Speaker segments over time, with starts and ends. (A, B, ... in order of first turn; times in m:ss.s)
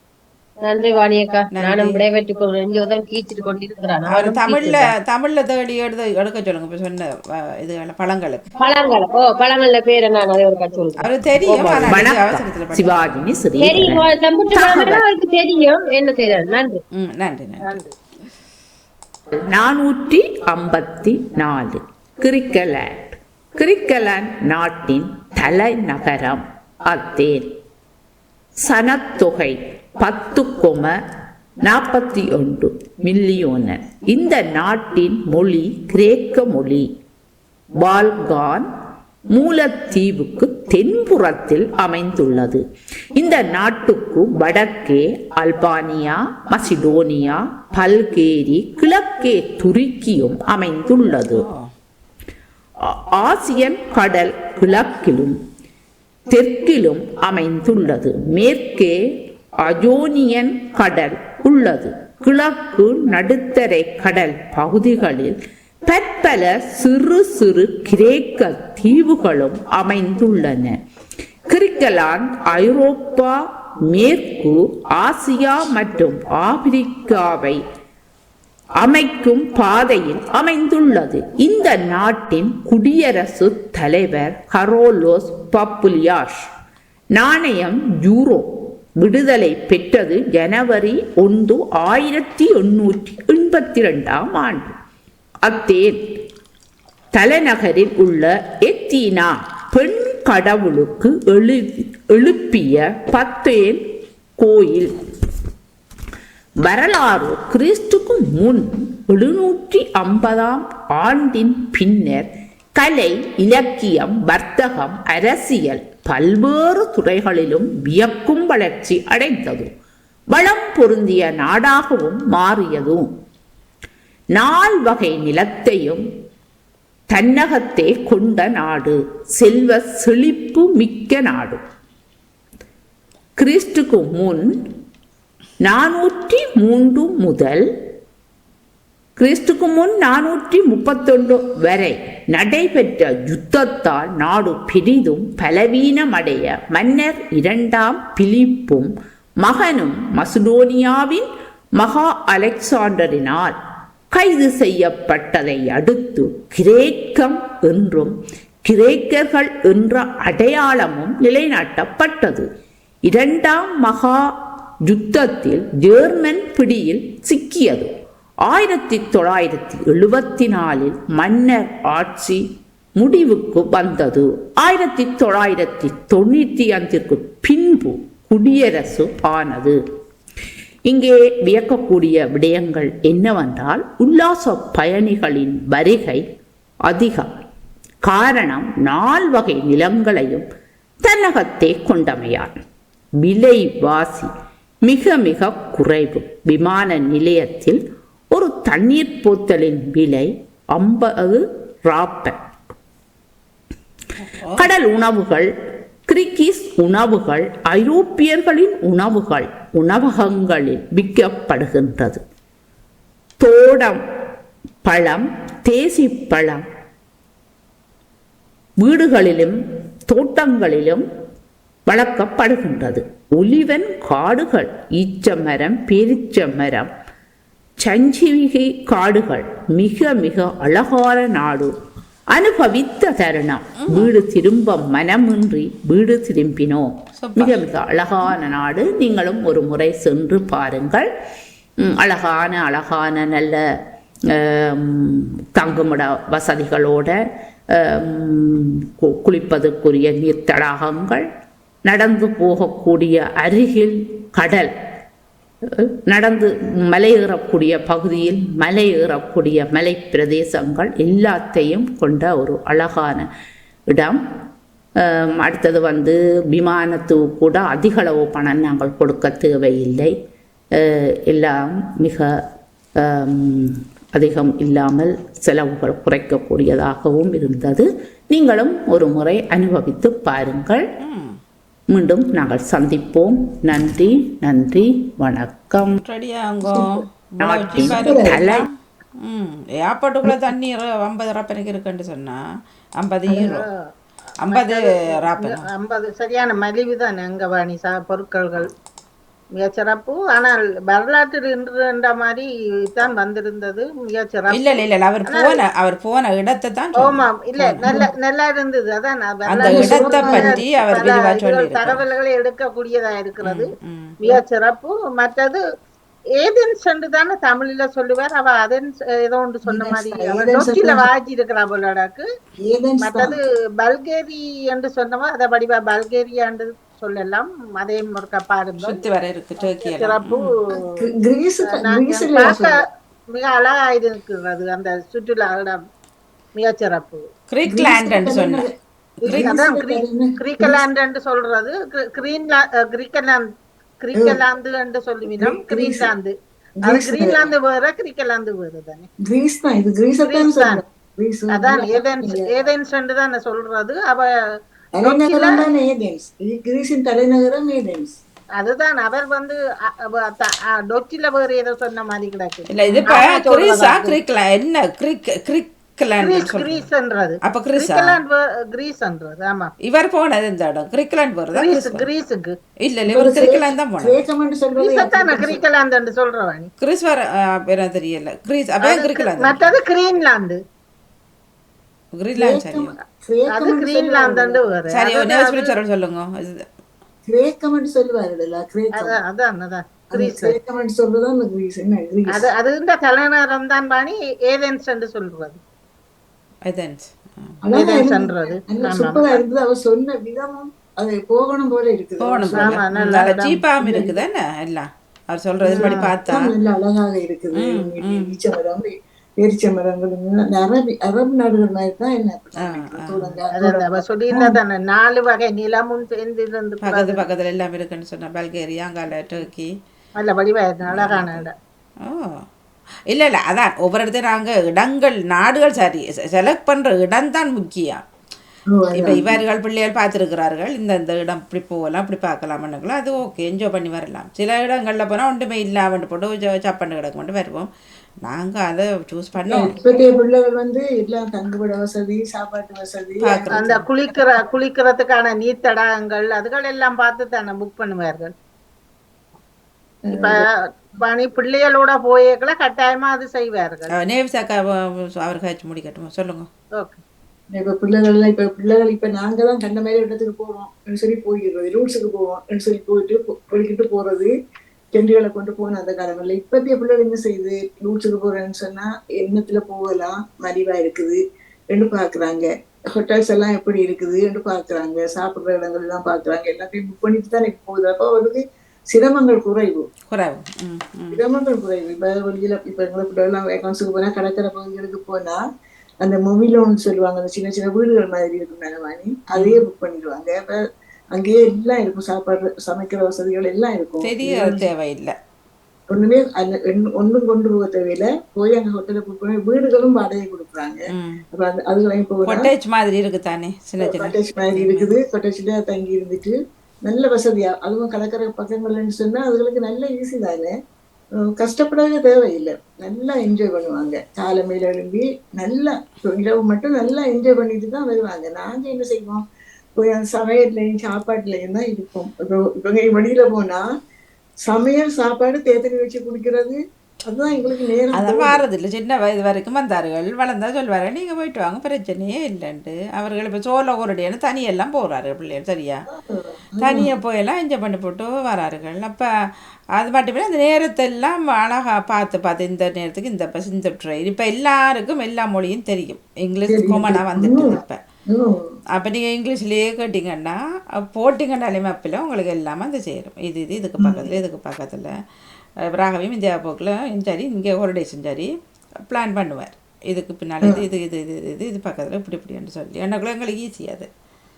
0:00.6-0:04.9 A
0:01.5-0:02.0 B
0:04.1-0:08.4 B
0:08.6-0:12.0 A
0:11.0-0:13.1 B
0:11.8-0:15.0 C
0:13.6-0:16.8 A
0:17.0-0:17.7 B
0:17.6-0:17.9 D
0:19.4-0:27.4 C
0:28.6-0:30.9 C
0:31.6-0:36.9 C
0:37.7-0:38.6 C
0:39.3-0:42.6 C
0:43.1-0:51.4 C
0:51.3-0:51.7 B
0:52.8-0:55.4 C
0:56.3-0:59.0 C
0:59.6-1:10.8 C
1:11.5-1:17.6 C
1:18.8-1:26.4 C
1:27.1-1:34.7 C
1:35.4-1:36.0 C
1:37.1-1:43.8 C
1:44.4-1:44.9 C
1:46.6-1:59.7 C
2:00.3-2:03.0 C
2:04.3-2:06.0 C
2:07.1-2:11.6 C
2:13.4-2:14.4 C
2:15.6-2:17.6 C
2:19.2-2:31.2 C
2:31.8-2:33.5 C
2:34.1-2:38.1 C
2:38.6-2:42.4 C
2:43.0-2:44.2 C
2:44.8-2:47.9 C
2:48.4-2:52.4 C
2:53.0-2:59.8 C
3:00.8-3:06.2 C
3:06.8-3:07.3 C
3:08.0-3:10.4 C
3:11.0-3:12.5 C
3:13.2-3:14.3 C
3:14.8-3:17.8 C
3:18.3-3:22.4 C
3:24.2-3:24.7 B
3:24.6-3:25.5 C
3:26.1-3:32.2 C
3:33.4-3:34.0 C
3:34.8-3:36.6 C
3:38.8-3:39.6 C
3:40.1-3:41.0 C
3:41.9-3:46.9 C
3:47.8-3:51.7 C
3:52.3-4:01.0 C
3:53.8-3:54.1 B
3:57.2-3:57.6 B
4:01.8-4:03.6 C
4:04.3-4:07.2 C
4:07.7-4:11.2 C
4:11.8-4:14.7 C
4:15.8-4:23.3 C
4:23.9-4:24.2 C
4:25.0-4:30.1 C
4:30.7-4:32.3 C
4:33.0-4:40.8 C
4:41.0-4:41.4 B
4:41.9-4:46.0 C
4:46.0-4:48.7 B
4:46.6-4:47.0 E
4:47.4-4:48.7 C
4:47.7-4:48.4 E
4:49.2-4:52.4 B
4:53.0-4:53.6 B
4:53.3-4:53.6 D
4:54.4-4:55.6 B
4:54.5-4:58.7 D
4:59.6-5:05.6 D
5:04.5-5:07.9 B
5:07.0-5:13.7 D
5:09.4-5:12.0 B
5:09.6-5:10.6 E
5:13.4-5:14.3 B
5:14.2-5:15.6 D
5:16.4-5:22.2 D
5:19.6-5:21.0 E
5:22.6-5:23.4 E
5:23.0-5:29.0 D
5:28.8-5:30.6 B
5:29.6-5:31.0 D
5:30.7-5:32.8 E
5:31.7-5:32.7 D
5:33.3-5:35.8 D
5:36.6-5:37.3 D
5:37.5-5:38.6 B
5:37.6-5:38.7 E
5:39.2-5:40.8 E
5:39.2-5:43.4 D
5:44.0-5:46.3 D
5:44.1-5:44.4 E
5:45.3-5:46.1 E
5:46.8-5:47.5 E
5:46.8-5:49.1 D
5:49.2-5:52.7 E
5:50.2-5:50.8 D
5:51.5-5:54.2 D
5:55.0-5:58.1 E
5:55.0-5:55.6 D
5:58.6-6:04.2 D
6:02.7-6:06.9 B
6:06.2-6:09.7 D
6:07.4-6:08.2 B
6:09.8-6:12.1 B
6:11.5-6:12.5 D
6:12.8-6:14.2 B
6:13.1-6:15.6 E
6:14.8-6:16.7 D
6:16.8-6:19.7 B
6:18.8-6:20.6 D
6:22.2-6:22.9 B
6:22.4-6:24.6 E
6:23.5-6:25.8 D
6:24.9-6:26.6 B
6:27.3-6:29.2 E
6:29.0-6:30.6 D
6:30.1-6:32.5 E
6:32.3-6:35.6 D
6:36.7-6:37.6 B
6:37.6-6:42.8 E
6:37.8-6:39.4 D
6:42.2-6:46.5 B
6:42.6-6:43.6 D
6:43.8-6:44.2 E
6:45.6-6:54.6 E
6:45.7-6:46.0 D
6:47.6-6:48.3 B
6:52.6-6:53.4 B
6:53.5-6:57.3 D
6:56.8-6:59.7 B
7:00.2-7:01.5 D
7:00.9-7:01.4 B
7:02.0-7:02.4 B
7:03.1-7:08.0 B
7:08.7-7:09.4 E
7:08.9-7:17.7 B
7:18.2-7:19.8 B
7:19.5-7:23.8 E
7:23.2-7:23.8 B
7:23.5-7:28.3 D
7:30.0-7:30.4 E
7:30.1-7:30.4 D
7:31.0-7:33.9 D
7:34.0-7:36.5 B
7:37.5-7:44.3 E
7:44.9-7:51.2 E
7:51.7-7:59.9 E
8:00.1-8:01.2 B
8:01.1-8:05.4 E
8:06.0-8:10.6 E
8:09.3-8:09.6 B
8:11.1-8:14.7 E
8:14.0-8:15.1 B
8:15.9-8:22.5 E
8:20.9-8:21.2 B
8:22.3-8:25.0 B
8:23.8-8:26.3 E
8:26.8-8:30.5 E
8:31.2-8:39.2 E
8:39.8-8:43.6 E
8:44.4-8:48.4 E
8:47.9-8:55.8 B
8:55.9-8:56.9 E
8:56.6-8:59.1 B
8:59.8-9:07.8 B
9:06.5-9:08.4 E
9:08.8-9:14.9 B
9:13.8-9:14.2 E
9:15.7-9:18.3 B
9:18.8-9:23.9 B